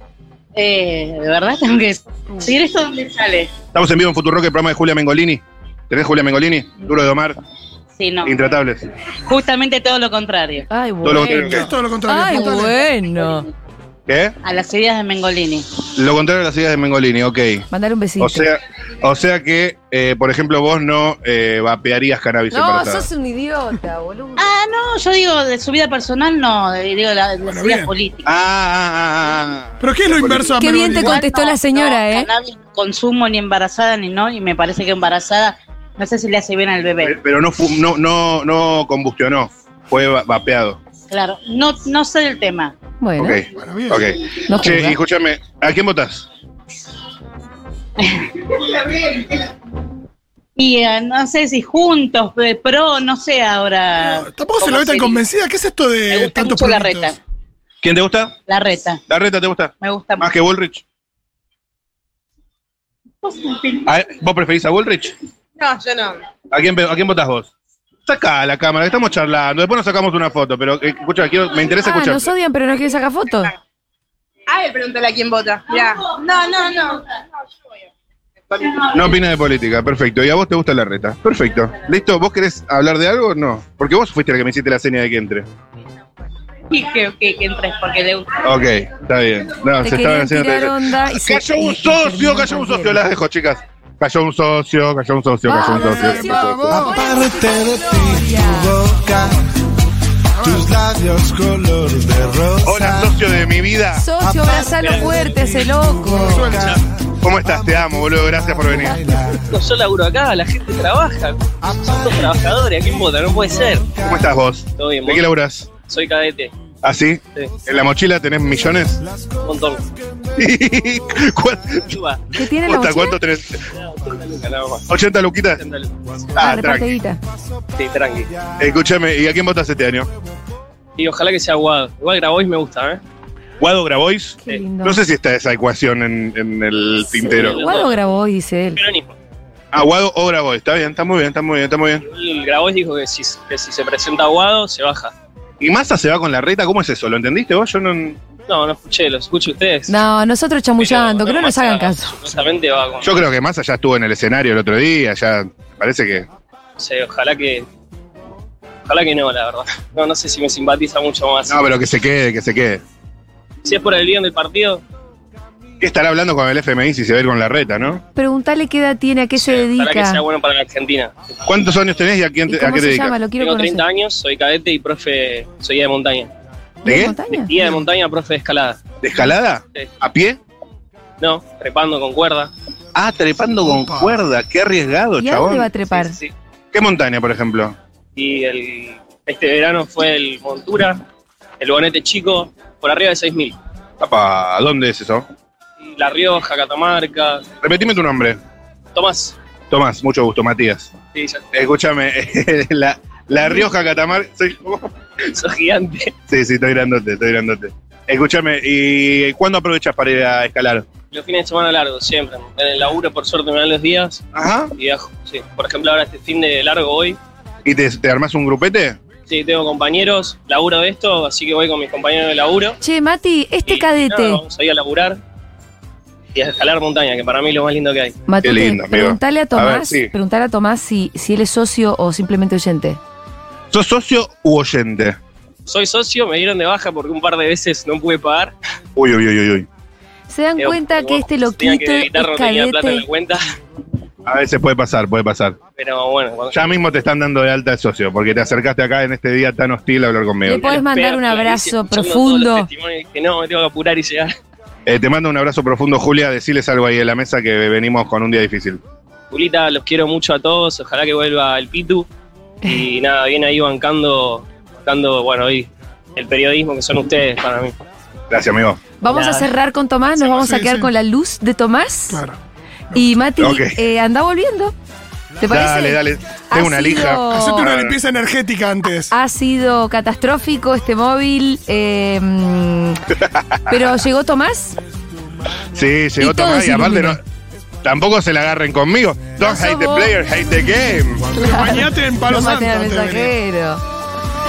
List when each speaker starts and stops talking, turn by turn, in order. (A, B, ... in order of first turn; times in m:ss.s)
0:00.5-0:03.5 A
0:03.7-0:07.4 B
0:08.0-0:08.4 A
0:08.2-0:08.8 B
0:09.2-0:10.7 A
0:10.7-0:13.5 C
0:11.0-0:11.7 B
0:11.2-0:12.8 D
0:14.1-0:14.3 B
0:14.4-0:15.7 A
0:15.9-0:17.6 B
0:17.7-0:18.5 C
0:18.2-0:23.1 B
0:22.5-0:24.5 C
0:24.4-0:28.3 A
0:27.5-0:27.9 D
0:28.2-0:30.7 B
0:29.8-0:31.2 D
0:30.6-0:32.3 C
0:30.9-0:37.2 A
0:37.0-0:40.8 B
0:41.1-0:42.7 A
0:43.0-0:43.4 C
0:43.2-0:46.2 B
0:43.5-0:44.1 D
0:44.5-0:45.0 C
0:48.8-0:49.2 A
0:50.6-0:55.0 A
0:54.0-0:57.2 D
0:54.6-0:55.2 E
0:56.1-0:57.1 A
0:57.8-0:58.3 B
0:58.5-0:59.0 A
0:59.1-1:00.8 B
0:59.8-1:00.3 A
1:03.2-1:03.8 E
1:03.8-1:05.1 B
1:05.6-1:06.2 E
1:06.5-1:07.5 B
1:08.0-1:12.3 B
1:11.8-1:13.5 C
1:14.5-1:17.0 E
1:18.5-1:18.8 E
1:18.9-1:25.5 B
1:26.7-1:28.4 A
1:26.8-1:28.2 E
1:28.4-1:36.8 B
1:29.8-1:33.0 C
1:35.4-1:38.8 C
1:36.6-1:39.4 F
1:40.3-1:40.7 D
1:40.4-1:43.1 F
1:42.6-1:44.1 B
1:43.9-1:46.5 C
1:44.2-1:46.8 F
1:44.6-1:45.5 G
1:46.2-1:46.7 D
1:46.5-1:46.8 G
1:47.2-1:49.0 B
1:48.5-1:49.5 F
1:49.5-1:53.9 G
1:51.6-1:52.2 F
1:54.0-1:55.7 B
1:54.8-1:55.2 G
1:55.8-1:56.5 G
1:56.8-1:59.0 B
1:59.4-1:59.8 G
2:00.4-2:02.0 B
2:01.9-2:02.2 G
2:02.3-2:03.2 C
2:02.6-2:03.6 B
2:03.8-2:04.9 G
2:04.9-2:05.6 B
2:05.6-2:05.9 G
2:06.4-2:07.0 B
2:06.4-2:07.2 C
2:07.7-2:08.3 G
2:08.6-2:10.1 B
2:11.0-2:13.0 G
2:13.6-2:17.6 B
2:14.4-2:15.0 C
2:17.1-2:18.8 C
2:17.4-2:18.1 G
2:18.7-2:19.1 G
2:19.7-2:22.0 B
2:22.0-2:25.1 G
2:25.6-2:28.2 B
2:28.5-2:30.0 G
2:29.9-2:32.1 C
2:30.8-2:33.1 G
2:33.0-2:36.3 B
2:36.8-2:37.6 G
2:38.8-2:41.6 G
2:41.5-2:42.8 B
2:43.6-2:44.8 G
2:45.8-2:48.0 B
2:48.1-2:50.2 C
2:49.4-2:51.1 G
2:51.5-2:53.2 B
2:52.5-2:53.8 C
2:53.3-2:56.3 G
2:56.8-2:57.5 C
2:56.8-2:57.2 B
2:57.3-2:58.8 G
2:59.0-3:00.4 B
3:01.2-3:02.5 G
3:02.9-3:05.7 B
3:03.6-3:04.2 D
3:05.2-3:06.2 C
3:05.9-3:06.3 G
3:06.7-3:07.8 B
3:08.2-3:11.0 G
3:11.6-3:13.6 G
3:14.0-3:15.2 B
3:15.8-3:17.5 G
3:17.6-3:18.4 B
3:18.9-3:19.3 G
3:19.7-3:20.9 B
3:21.1-3:21.4 G
3:21.5-3:24.9 B
3:25.2-3:26.1 G
3:26.3-3:30.8 B
3:31.1-3:34.2 G
3:34.3-3:34.7 B
3:34.8-3:37.2 G
3:37.6-3:39.0 B
3:39.3-3:42.8 G
3:42.8-3:44.4 C
3:43.6-3:45.2 G
3:46.3-3:48.2 G
3:48.3-3:53.0 C
3:48.4-3:50.1 B
3:53.7-3:55.2 B
3:55.6-3:58.5 G
3:59.0-3:59.7 B
4:00.3-4:03.0 C
4:00.6-4:03.4 G
4:04.2-4:05.6 B
4:05.8-4:06.8 G
4:06.5-4:10.8 B
4:10.4-4:12.7 C
4:10.5-4:14.3 G
4:14.8-4:18.8 B
4:19.3-4:22.1 G
4:22.6-4:27.7 G
4:28.3-4:28.8 B
4:29.0-4:32.2 C
4:30.3-4:30.9 D
4:32.1-4:32.4 D
4:32.9-4:34.7 C
4:33.4-4:33.7 B
4:35.4-4:37.7 C
4:35.4-4:38.0 B
4:37.3-4:39.1 D
4:39.1-4:43.0 C
4:43.2-4:43.8 B
4:43.7-4:44.8 C
4:45.7-4:47.2 B
4:46.2-4:47.2 C
4:47.8-4:51.3 B
4:49.4-4:50.1 C
4:51.3-4:53.3 D
4:51.3-4:53.8 C